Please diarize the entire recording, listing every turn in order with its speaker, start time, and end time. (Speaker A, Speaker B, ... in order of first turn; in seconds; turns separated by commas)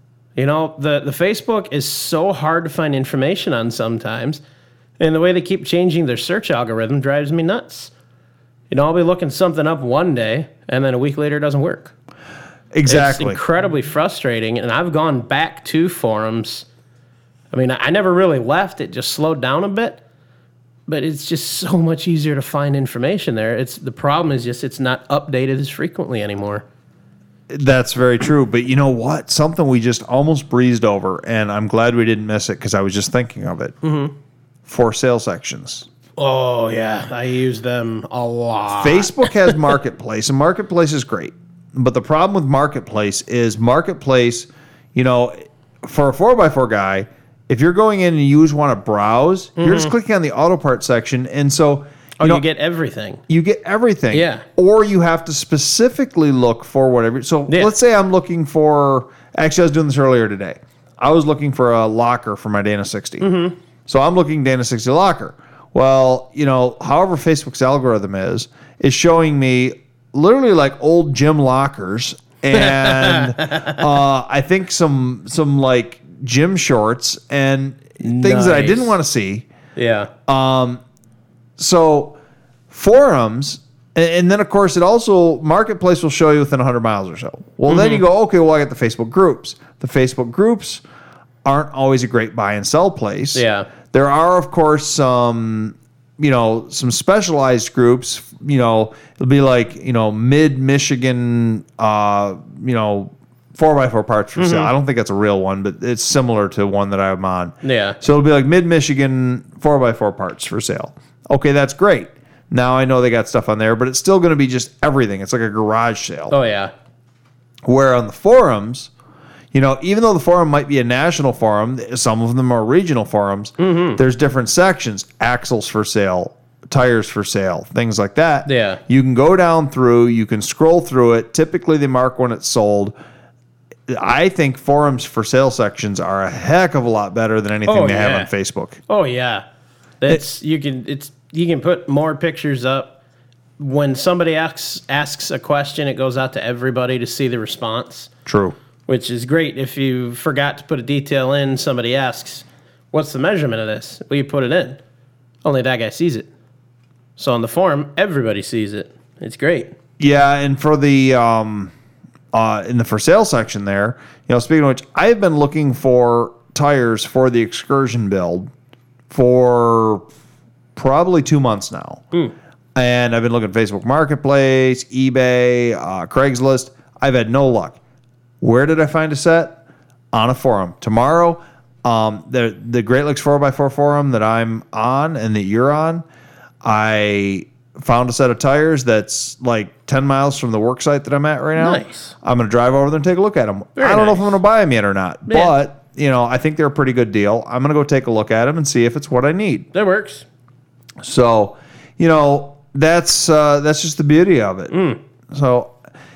Speaker A: 0.3-4.4, Speaker A: 5.0-7.9, Speaker A: 8.7-11.9, Speaker B: 12.7-13.4, Speaker A: 12.9-16.6, Speaker A: 17.5-20.0, Speaker A: 20.9-26.6, Speaker B: 27.5-33.7, Speaker A: 33.8-34.1, Speaker B: 34.6-35.9, Speaker A: 36.2-39.6, Speaker B: 38.8-52.4, Speaker A: 49.6-49.9, Speaker A: 52.2-53.2, Speaker B: 53.3-63.3, Speaker A: 54.1-54.4, Speaker A: 63.2-63.5, Speaker B: 63.9-79.5, Speaker A: 72.5-73.7, Speaker A: 78.0-78.9, Speaker A: 79.8-80.1, Speaker B: 80.3-80.8, Speaker B: 81.6-82.2, Speaker B: 82.7-90.8, Speaker A: 87.7-88.0, Speaker B: 91.4-116.4, Speaker A: 93.3-93.7, Speaker A: 104.3-104.7, Speaker A: 107.6-108.0, Speaker A: 116.3-116.7, Speaker B: 117.7-118.9, Speaker B: 119.5-132.9, Speaker A: 123.6-124.0, Speaker A: 128.4-128.8, Speaker B: 133.9-138.8, Speaker A: 137.7-138.3, Speaker A: 138.9-139.4, Speaker A: 140.0-143.0, Speaker A: 143.6-148.1, Speaker B: 148.2-148.5, Speaker A: 148.9-154.8, Speaker A: 155.4-156.3, Speaker A: 157.2-159.7, Speaker B: 160.0-161.7, Speaker B: 162.3-168.5, Speaker B: 169.1-170.0, Speaker B: 170.7-172.0, Speaker B: 172.8-177.8, Speaker B: 178.4-179.6, Speaker B: 180.1-186.0, Speaker B: 186.6-199.7, Speaker A: 191.6-192.1, Speaker A: 193.8-194.3, Speaker A: 195.3-195.5, Speaker A: 199.7-200.2, Speaker B: 201.0-204.7, Speaker A: 204.7-205.0, Speaker B: 205.3-205.7